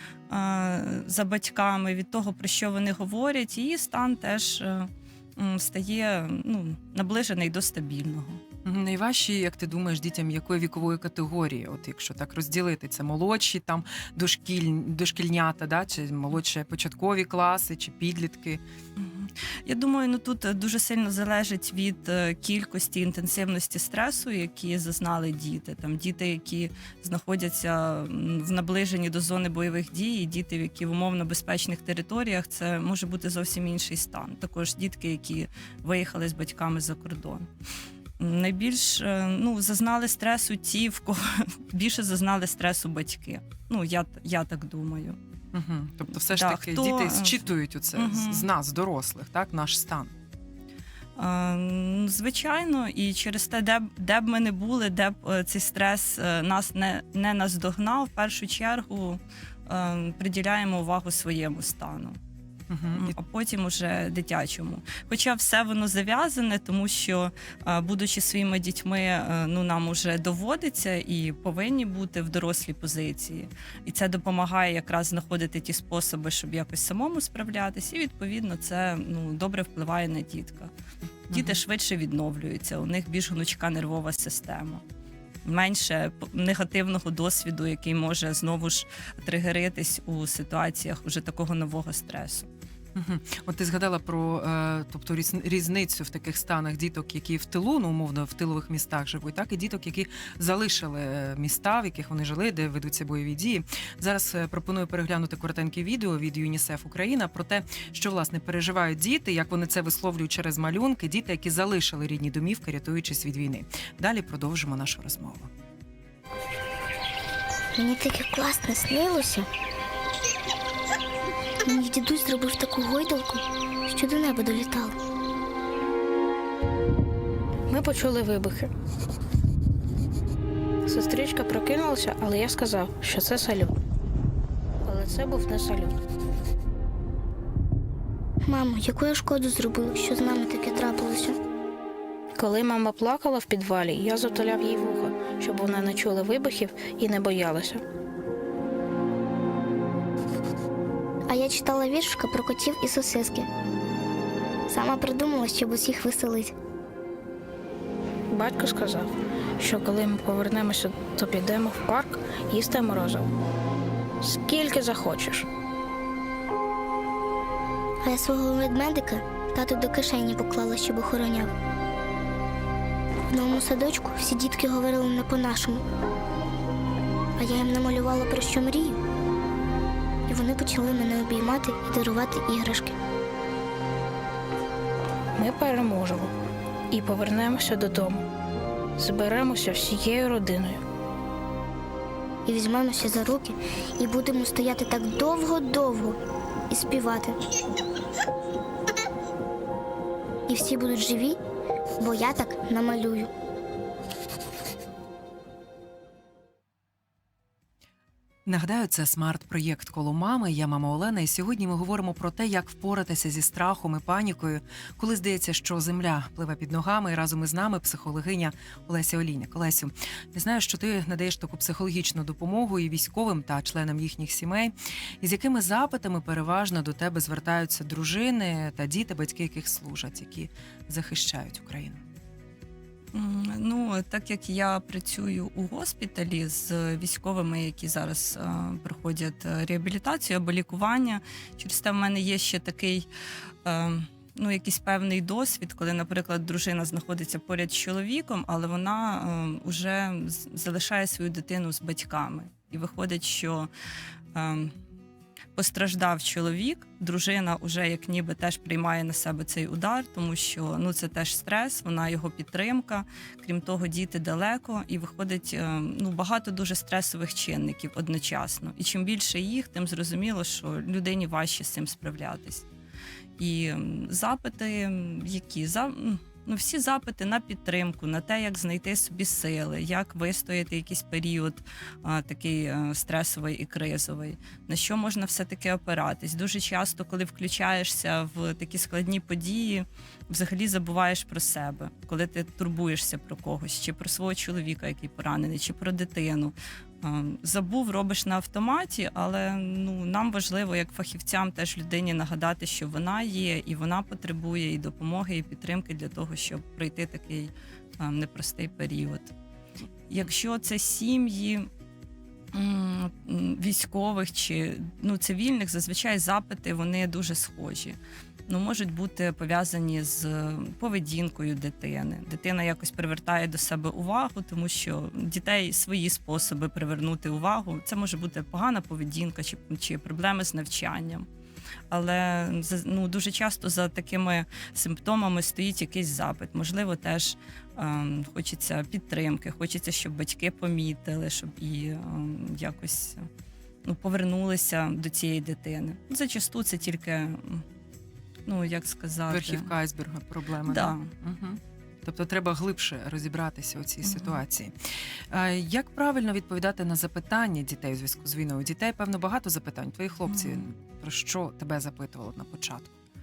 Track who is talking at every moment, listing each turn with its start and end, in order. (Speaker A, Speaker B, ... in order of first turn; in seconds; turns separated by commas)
Speaker A: 0.3-8.4, Speaker B: 8.7-18.6, Speaker A: 19.0-37.5, Speaker A: 38.2-45.2, Speaker B: 45.5-50.1, Speaker A: 46.3-48.5, Speaker A: 51.2-62.2, Speaker B: 62.7-63.2, Speaker A: 63.0-80.7, Speaker B: 81.3-81.6, Speaker A: 81.3-84.8, Speaker A: 85.5-92.5, Speaker B: 93.0-115.5, Speaker C: 117.8-119.5, Speaker C: 121.7-125.0, Speaker D: 127.7-128.7, Speaker D: 130.8-133.7, Speaker D: 134.8-135.9, Speaker C: 138.5-141.4, Speaker D: 142.4-147.8, Speaker C: 151.3-153.5, Speaker C: 154.7-156.5, Speaker D: 158.3-159.1, Speaker D: 159.6-163.3, Speaker D: 164.2-165.5, Speaker C: 168.0-171.5, Speaker C: 173.3-175.8, Speaker C: 177.4-179.0, Speaker C: 180.3-183.0, Speaker D: 185.4-186.3, Speaker D: 186.9-188.2, Speaker D: 189.0-190.8, Speaker C: 192.5-196.2, Speaker C: 196.7-197.3, Speaker C: 200.5-201.4, Speaker C: 202.0-203.3, Speaker B: 208.5-232.0, Speaker A: 233.1-243.1, Speaker A: 243.7-253.7, Speaker A: 254.3-254.7, Speaker A: 255.5-272.6, Speaker A: 273.4-309.3, Speaker A: 310.1-311.7, Speaker A: 312.5-331.2, Speaker A: 331.9-343.3, Speaker A: 343.8-347.6, Speaker A: 348.5-349.7, Speaker B: 349.3-362.9, Speaker A: 350.7-351.1, Speaker A: 354.0-354.4, Speaker A: 360.3-360.6